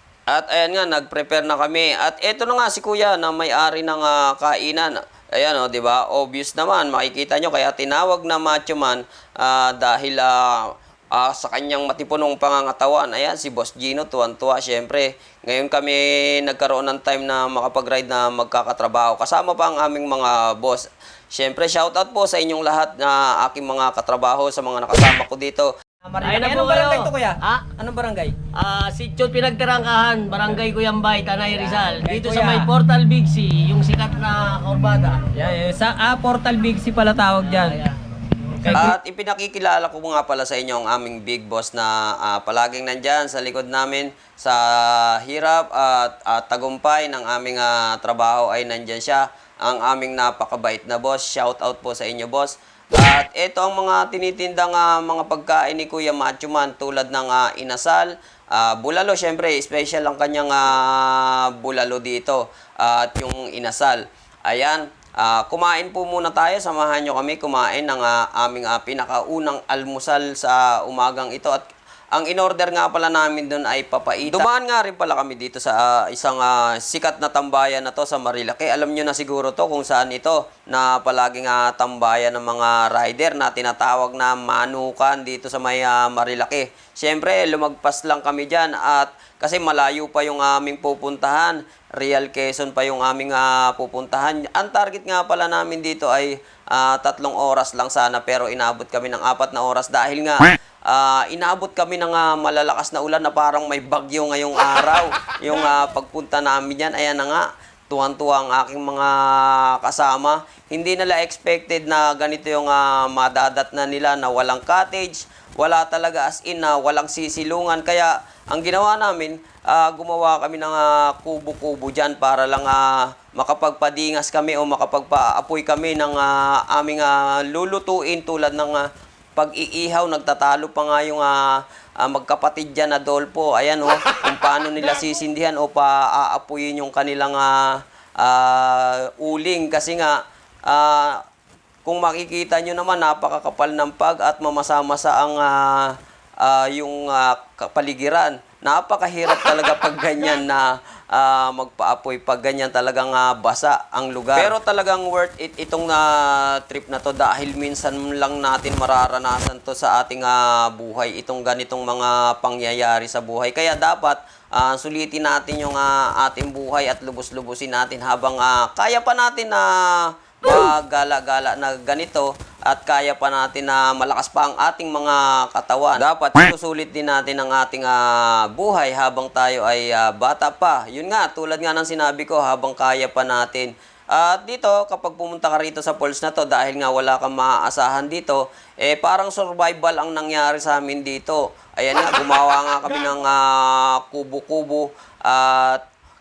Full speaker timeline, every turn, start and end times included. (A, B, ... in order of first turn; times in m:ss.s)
0:00.3-0:28.4 A
0:26.2-0:27.7 B
0:26.2-0:27.0 C
0:28.5-0:35.3 B
0:32.0-0:32.6 A
0:32.2-0:32.6 C
0:35.4-0:35.7 A
0:35.7-0:37.6 C
0:37.4-0:38.0 B
0:38.6-0:38.9 B
0:38.7-1:11.6 A
1:12.1-2:08.8 A
2:09.4-2:11.4 A
2:12.0-2:21.2 A
2:21.8-3:15.8 A